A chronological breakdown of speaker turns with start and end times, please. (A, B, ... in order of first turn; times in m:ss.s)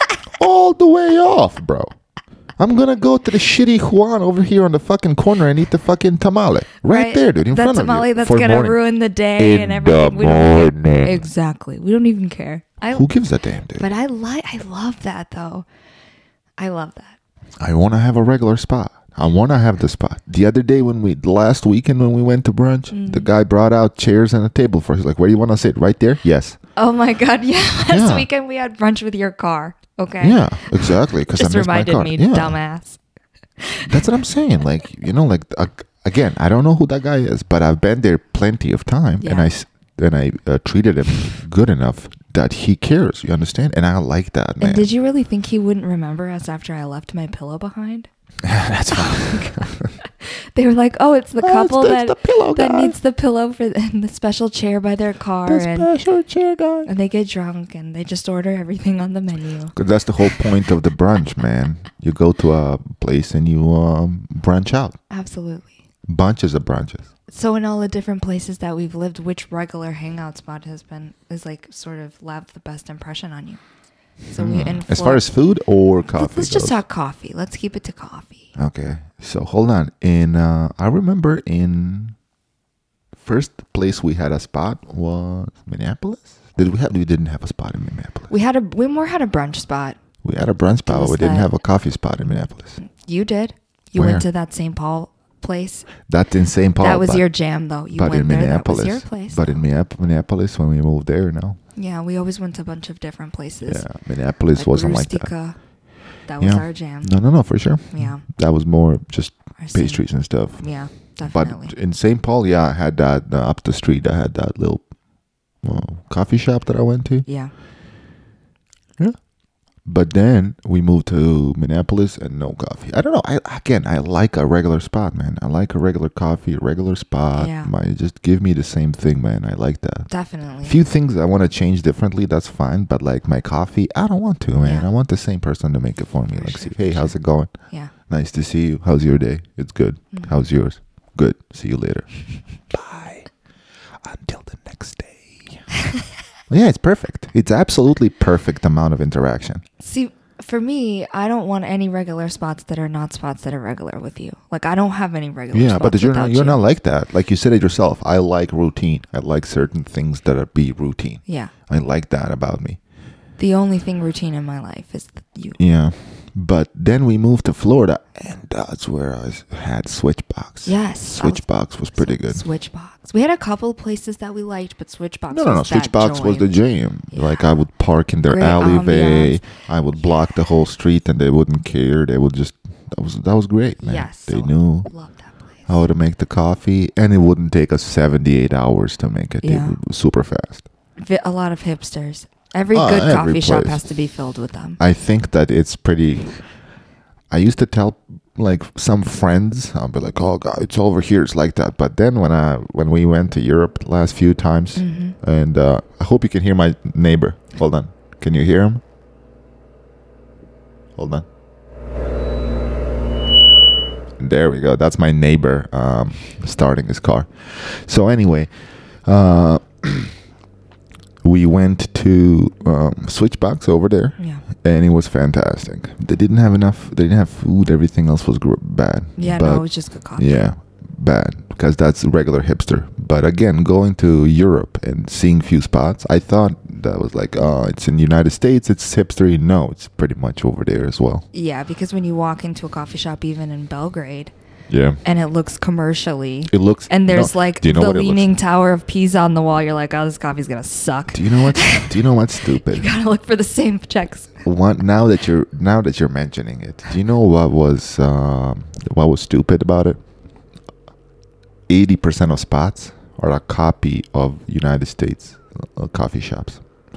0:00.2-0:01.9 A
0:02.6-0:08.8 A
0:06.8-0:13.1 B
0:09.4-0:11.2 A
0:12.9-0:13.9 A
0:13.8-0:15.7 B
0:16.6-0:17.2 B
0:17.6-0:26.6 A
0:22.9-0:23.3 B
0:26.8-0:33.0 B
0:27.9-0:28.3 A
0:30.2-0:32.6 A
0:33.6-0:33.9 B
0:33.9-0:44.9 A
0:39.2-0:39.5 B
0:44.6-0:48.1 B
0:48.4-0:49.9 A
0:48.9-0:55.9 B
0:51.4-0:53.0 A
0:55.5-0:56.9 A
0:56.9-0:59.8 B
0:59.8-1:05.0 A
1:05.1-1:05.8 B
1:06.1-1:07.1 A
1:07.3-1:13.6 B
1:14.3-1:15.2 B
1:14.4-1:16.8 A
1:16.2-1:18.5 B
1:18.6-1:22.2 A
1:23.2-1:28.3 A
1:28.3-1:30.0 B
1:30.2-1:32.8 A
1:30.9-1:31.5 B
1:32.8-1:35.9 B
1:34.0-1:34.2 A
1:36.1-1:37.3 A
1:36.8-1:39.6 B
1:37.9-1:41.6 A
1:41.8-1:43.8 B
1:43.7-1:45.3 A
1:44.6-1:45.6 B
1:46.2-1:47.1 B
1:46.4-1:50.6 A
1:47.9-1:48.2 B
1:49.6-1:50.1 B
1:50.6-1:51.7 B
1:51.2-1:54.9 A
1:55.6-1:57.3 A
1:57.3-1:57.5 B
1:59.8-2:10.1 A
2:07.4-2:07.7 B
2:10.1-2:10.8 B
2:10.6-2:17.5 A
2:14.6-2:14.9 B
2:16.4-2:17.1 B
2:18.1-2:22.2 A
2:22.7-2:23.3 A
2:24.0-2:25.7 A
2:26.5-2:29.6 A
2:29.8-2:36.6 B
2:35.5-2:42.8 A
2:41.3-2:41.5 B
2:43.4-2:45.6 B
2:45.6-2:52.4 A
2:50.6-2:56.5 B
2:55.3-3:04.9 A
2:57.1-2:57.4 B
2:58.3-2:59.4 B
3:03.8-3:05.8 B
3:05.7-3:10.7 A
3:09.4-3:09.8 B
3:11.0-3:14.8 B
3:12.7-3:13.8 A
3:14.8-3:16.4 A
3:17.3-3:28.8 A
3:24.8-3:25.2 B
3:31.0-3:31.3 A
3:34.2-3:38.5 A
3:39.0-3:40.2 A
3:41.2-3:49.6 A
3:44.2-3:44.4 B
3:49.2-3:50.4 B
3:50.2-4:01.3 A
4:01.3-4:04.3 B
4:04.7-4:05.0 A
4:05.0-4:12.0 B
4:06.5-4:08.3 A
4:11.1-4:12.9 A
4:12.5-4:14.4 B
4:14.4-4:20.0 A
4:21.7-4:26.6 A